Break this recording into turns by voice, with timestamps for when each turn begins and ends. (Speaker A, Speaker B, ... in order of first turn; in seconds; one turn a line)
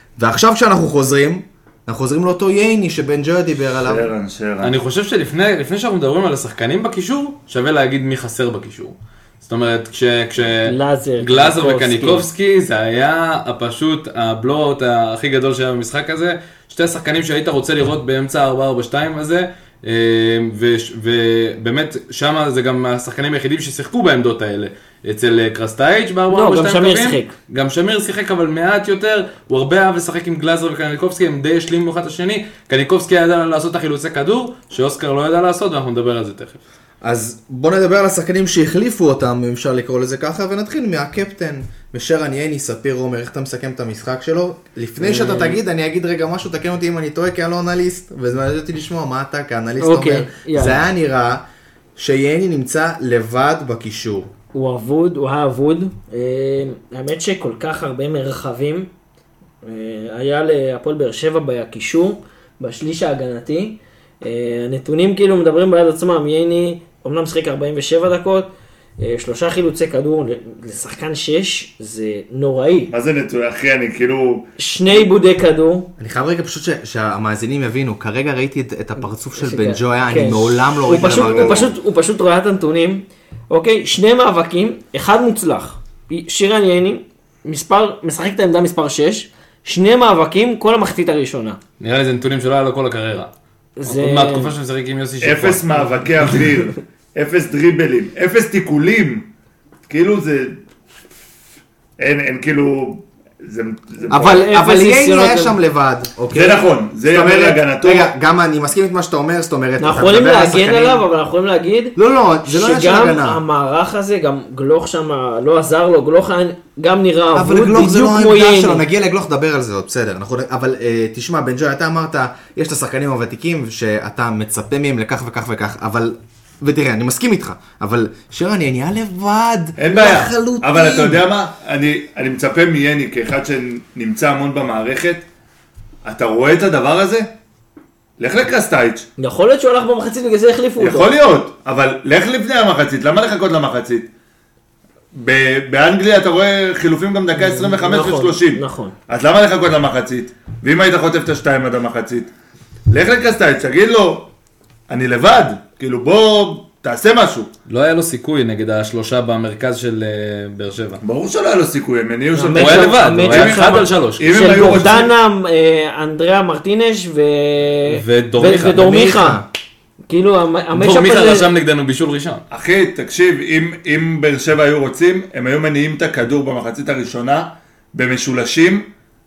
Speaker A: 0.2-4.1
Speaker B: 3.8-4.7
Speaker C: 4.6-36.6
Speaker D: 10.6-12.2
Speaker D: 26.3-27.3
Speaker A: 37.0-51.4
Speaker D: 49.8-50.8
Speaker A: 52.0-54.3
Speaker D: 54.5-58.9
Speaker D: 59.6-72.9
Speaker B: 72.9-74.5
Speaker D: 74.6-75.9
Speaker A: 76.0-81.7
Speaker D: 79.3-91.6
Speaker B: 80.8-81.7
Speaker C: 91.8-93.3
Speaker D: 93.8-94.5
Speaker C: 93.8-96.0
Speaker B: 95.2-99.3
Speaker B: 99.9-100.6
Speaker B: 102.0-104.4
Speaker A: 104.1-111.0
Speaker D: 104.1-105.5
Speaker B: 106.3-108.1
Speaker D: 109.8-118.8
Speaker A: 112.0-113.4
Speaker A: 117.3-131.2
Speaker B: 129.8-135.2
Speaker B: 136.0-137.3
Speaker B: 138.2-139.1
Speaker D: 139.2-141.1
Speaker B: 140.8-144.1
Speaker B: 145.1-152.3
Speaker D: 147.3-148.9
Speaker B: 152.9-154.3
Speaker B: 154.9-157.5
Speaker C: 157.7-161.0
Speaker B: 161.0-165.1
Speaker D: 162.3-169.4
Speaker C: 162.5-164.8
Speaker C: 167.9-168.8
Speaker A: 168.6-169.5
Speaker D: 170.1-171.5
Speaker C: 170.7-172.4
Speaker B: 172.5-178.8